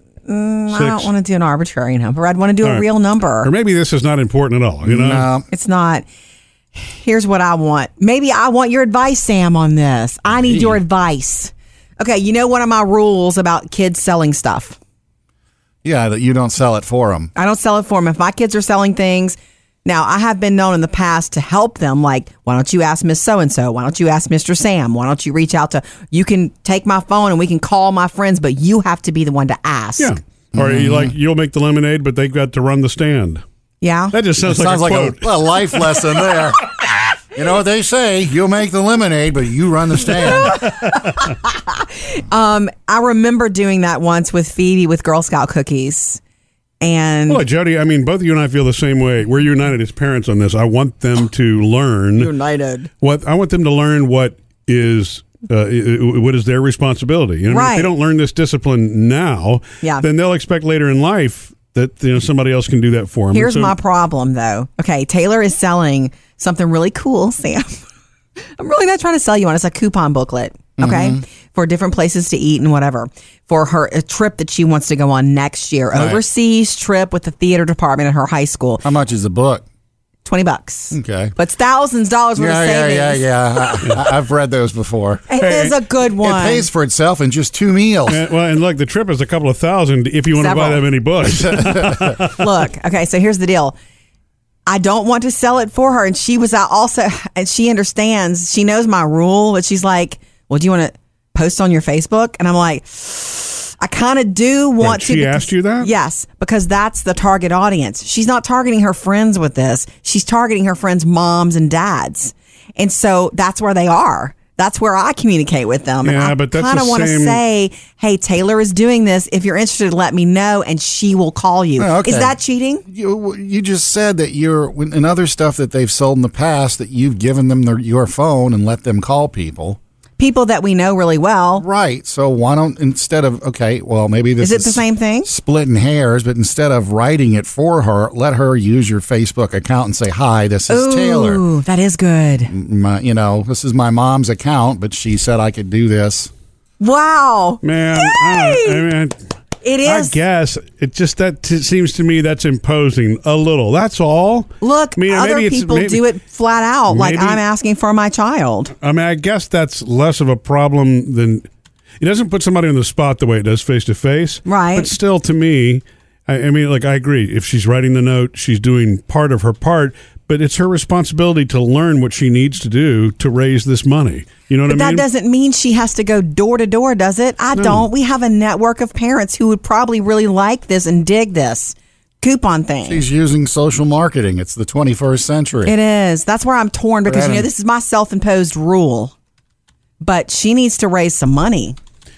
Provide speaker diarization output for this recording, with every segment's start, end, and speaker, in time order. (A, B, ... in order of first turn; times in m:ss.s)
0:00.3-0:03.5 A
0:00.7-0:01.1 B
0:03.4-0:05.3 B
0:04.8-0:05.5 C
0:05.5-0:06.1 A
0:06.7-0:14.8 A
0:10.3-0:10.8 C
0:15.8-0:17.3 C
0:17.4-0:30.2 A
0:30.0-0:33.4 B
0:30.5-0:31.1 C
0:33.8-0:34.2 A
0:34.1-0:35.3 B
0:34.4-0:36.8 C
0:37.3-0:40.6 C
0:40.6-0:41.3 B
0:41.7-0:46.2 A
0:46.8-0:47.4 A
0:47.3-0:52.3 B
0:52.2-0:52.9 A
0:53.0-1:03.8 B
0:57.5-0:57.9 A
1:03.3-1:07.8 A
1:08.6-1:18.8 A
1:10.8-1:11.2 C
1:16.0-1:16.2 C
1:18.8-1:19.6 C
1:20.2-1:23.8 A
1:20.9-1:21.3 C
1:22.4-1:25.4 C
1:25.3-1:26.7 A
1:26.2-1:28.2 C
1:28.1-1:32.4 B
1:30.4-1:30.9 A
1:31.2-1:32.2 C
1:32.4-1:33.8 A
1:34.7-2:02.8 A
1:44.8-1:45.9 B
1:56.0-1:57.4 B
2:01.8-2:02.4 C
2:02.9-2:09.8 C
2:10.2-2:11.6 A
2:11.6-2:21.4 C
2:14.4-2:15.3 A
2:20.7-2:22.5 A
2:22.5-2:26.3 C
2:26.8-2:28.8 A
2:27.6-2:29.2 B
2:29.6-2:30.2 A
2:29.8-2:36.0 B
2:34.6-2:38.7 A
2:36.9-2:37.4 B
2:38.8-2:41.5 B
2:42.0-2:55.0 B
2:44.4-2:44.9 A
2:54.7-3:03.1 A
2:57.6-2:57.9 B
3:02.9-3:05.7 C
3:05.6-3:09.1 A
3:07.0-3:07.5 C
3:10.0-3:11.8 A